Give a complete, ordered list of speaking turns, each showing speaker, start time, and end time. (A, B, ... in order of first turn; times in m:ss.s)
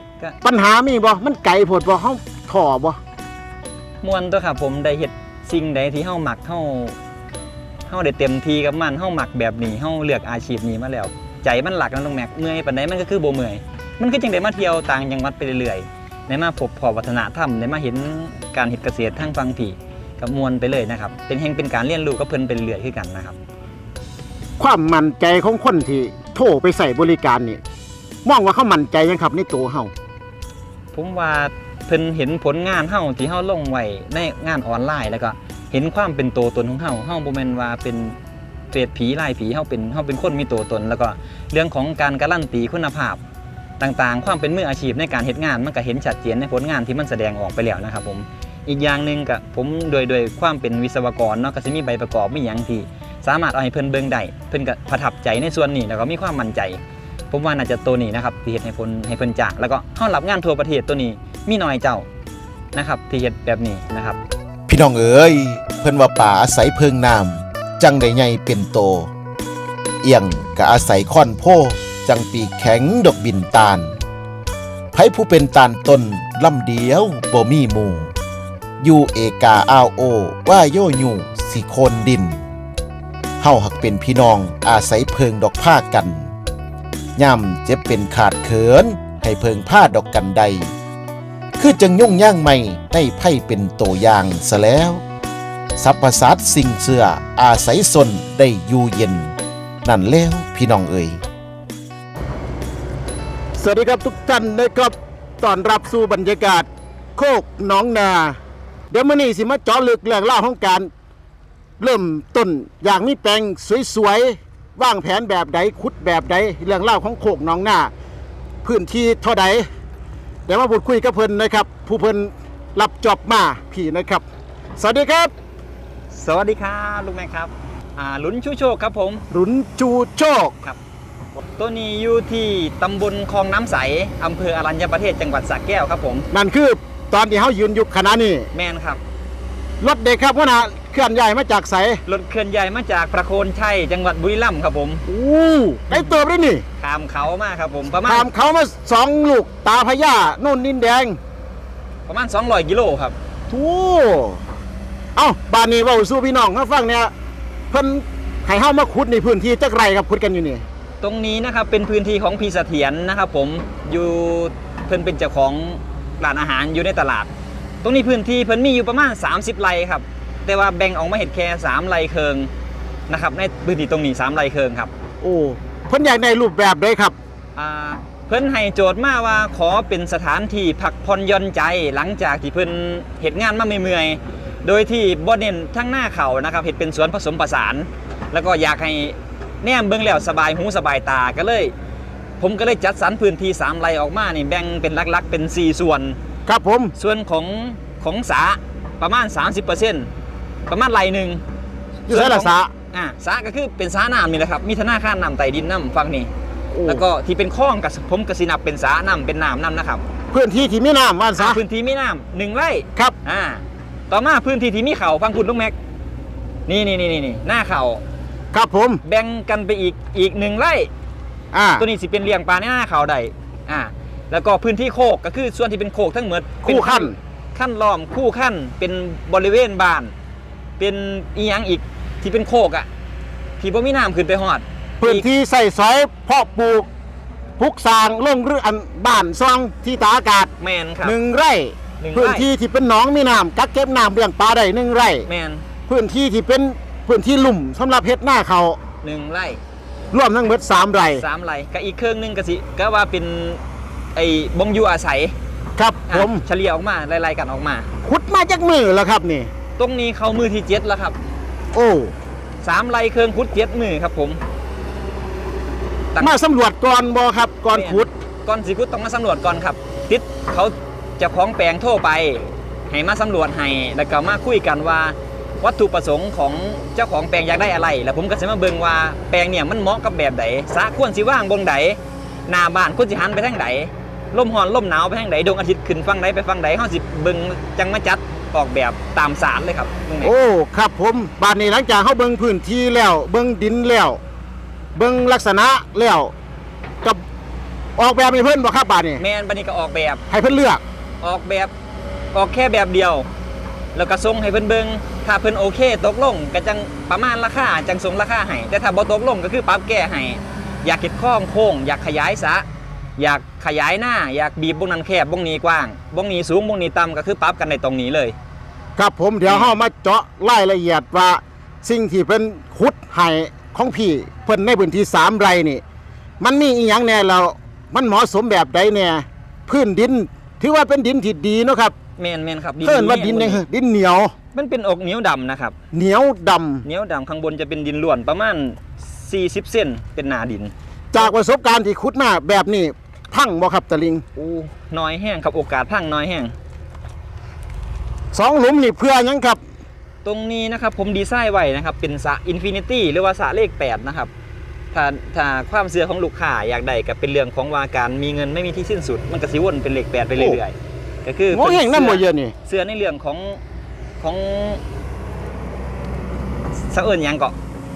0:00.4-0:03.0 A
0:04.0-0:07.0 B
0:07.9-0:23.3 B
0:24.6-0:27.6 A
0:28.2-0:29.9 A
0:30.9-0:38.2 B
0:38.7-0:43.2 B
0:43.8-0:56.8 B
0:57.3-1:02.0 B
1:02.7-1:04.2 B
1:04.7-1:09.1 C
1:10.0-1:14.0 C
1:14.9-1:18.1 C
1:18.8-1:22.4 C
1:23.4-1:26.3 C
1:27.2-1:30.7 C
1:31.6-1:35.0 C
1:35.8-1:41.2 C
1:43.6-1:48.4 A
1:48.9-1:50.9 A
1:51.8-1:57.9 A
1:58.6-1:59.7 A
2:00.5-2:04.2 A
2:04.8-2:05.3 A
2:06.1-2:09.2 B
2:09.3-2:10.5 A
2:11.6-2:16.3 B
2:16.3-2:18.5 A
2:18.5-2:19.0 B
2:19.8-2:22.0 A
2:22.0-2:25.0 B
2:25.0-2:26.6 A
2:25.9-2:26.2 B
2:26.8-2:28.3 B
2:28.0-2:31.2 A
2:32.1-2:33.2 B
2:33.5-2:34.4 A
2:35.2-2:37.1 A
2:37.7-2:40.6 A
2:41.0-2:47.3 B
2:47.8-2:52.5 B
2:53.1-2:54.9 B
2:55.2-2:57.2 A
2:57.6-3:11.7 B
3:12.4-3:16.2 B
3:16.5-3:16.9 A
3:17.0-3:20.1 B
3:20.7-3:21.4 B
3:22.1-3:22.7 A
3:22.1-3:26.3 B
3:26.7-3:27.0 A
3:26.8-3:30.0 B
3:30.3-3:31.6 A
3:31.4-3:35.7 B
3:36.7-3:38.0 B
3:38.5-3:39.0 A
3:39.0-3:40.9 B
3:41.5-3:41.8 A
3:41.8-3:50.1 B
3:46.6-3:47.2 A
3:50.8-3:52.9 B
3:53.6-3:55.2 B
3:55.0-3:56.9 A
3:57.6-4:00.5 A
4:00.6-4:01.2 B
4:01.0-4:05.3 A
4:02.0-4:02.4 B
4:05.3-4:05.6 B
4:05.9-4:08.8 A
4:09.0-4:09.6 B
4:10.1-4:11.2 A
4:11.2-4:13.6 B
4:14.1-4:15.3 B
4:15.8-4:16.4 A
4:16.1-4:17.9 B
4:18.0-4:19.5 A
4:19.8-4:21.2 B
4:21.7-4:22.1 A
4:22.6-4:24.4 B
4:26.2-4:28.1 A
4:27.7-4:50.3 B
4:50.2-4:54.2 A
4:55.0-4:56.3 A
4:58.0-4:59.2 A
4:59.2-5:00.2 B
5:00.3-5:00.8 A
5:01.2-5:01.7 B
5:02.3-5:03.3 B
5:03.9-5:12.6 B
5:13.2-5:18.4 B
5:19.0-5:25.8 A
5:26.4-5:31.9 A
5:32.2-5:33.6 B
5:32.8-5:34.3 A
5:34.5-5:35.7 B
5:35.9-5:36.8 A
5:36.8-5:41.3 B
5:41.1-5:44.2 A
5:44.4-5:46.5 B
5:48.3-5:49.6 A
5:50.2-5:54.3 B
5:54.9-6:03.6 B
6:01.5-6:02.5 A
6:04.2-6:04.8 B
6:06.8-6:07.5 B